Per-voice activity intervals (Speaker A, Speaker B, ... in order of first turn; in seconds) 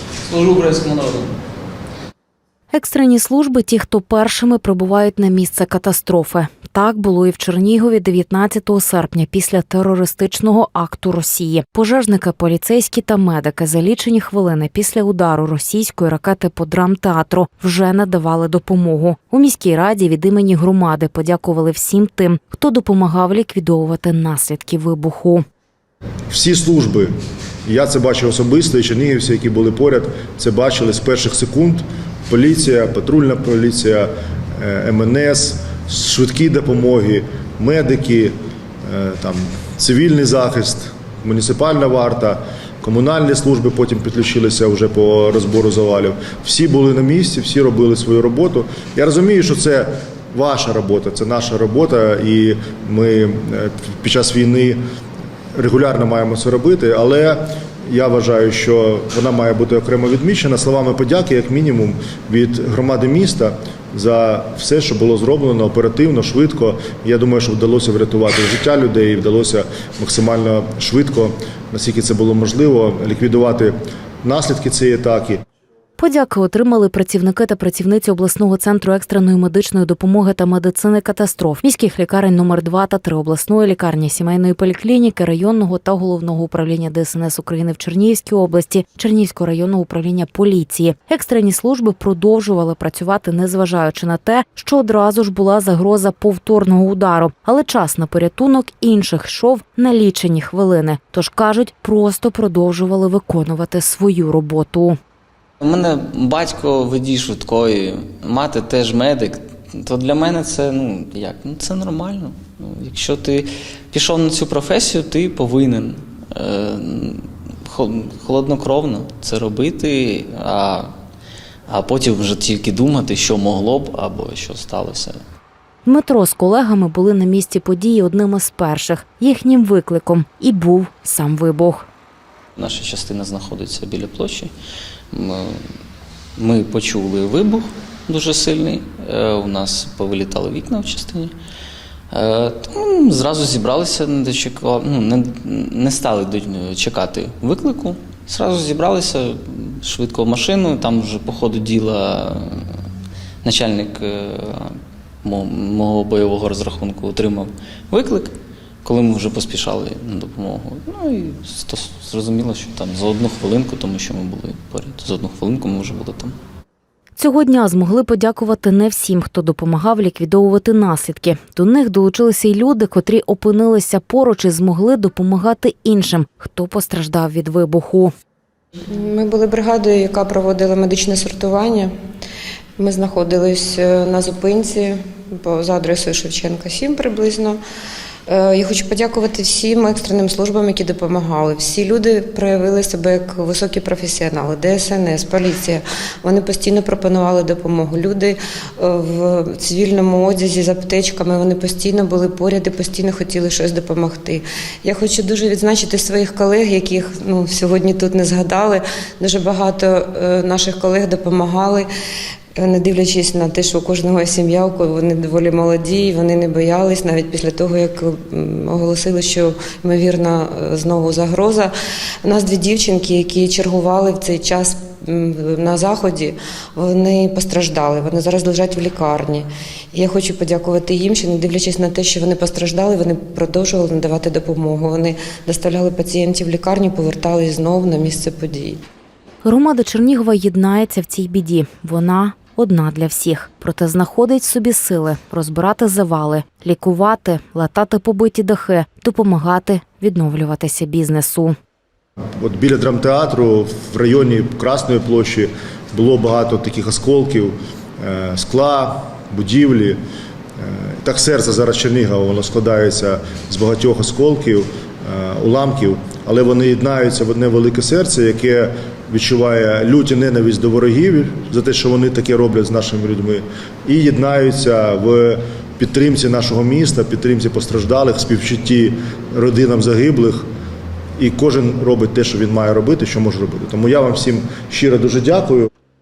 Speaker A: 0.2-1.3, 105.6-120.9, 121.7-125.2, 132.6-134.5, 135.1-135.6, 136.4-141.3, 142.1-152.7, 153.4-158.3, 158.8-166.3
Speaker B: 2.7-25.5, 76.0-105.0, 125.9-131.9, 167.2-178.1, 239.4-251.6
Speaker C: 26.3-27.1, 27.7-38.3, 38.9-54.8, 55.5-75.4, 252.4-260.0, 260.6-280.5, 281.2-285.7
Speaker D: 178.9-181.9, 182.8-187.6, 188.3-211.9, 212.6-221.7, 222.2-238.8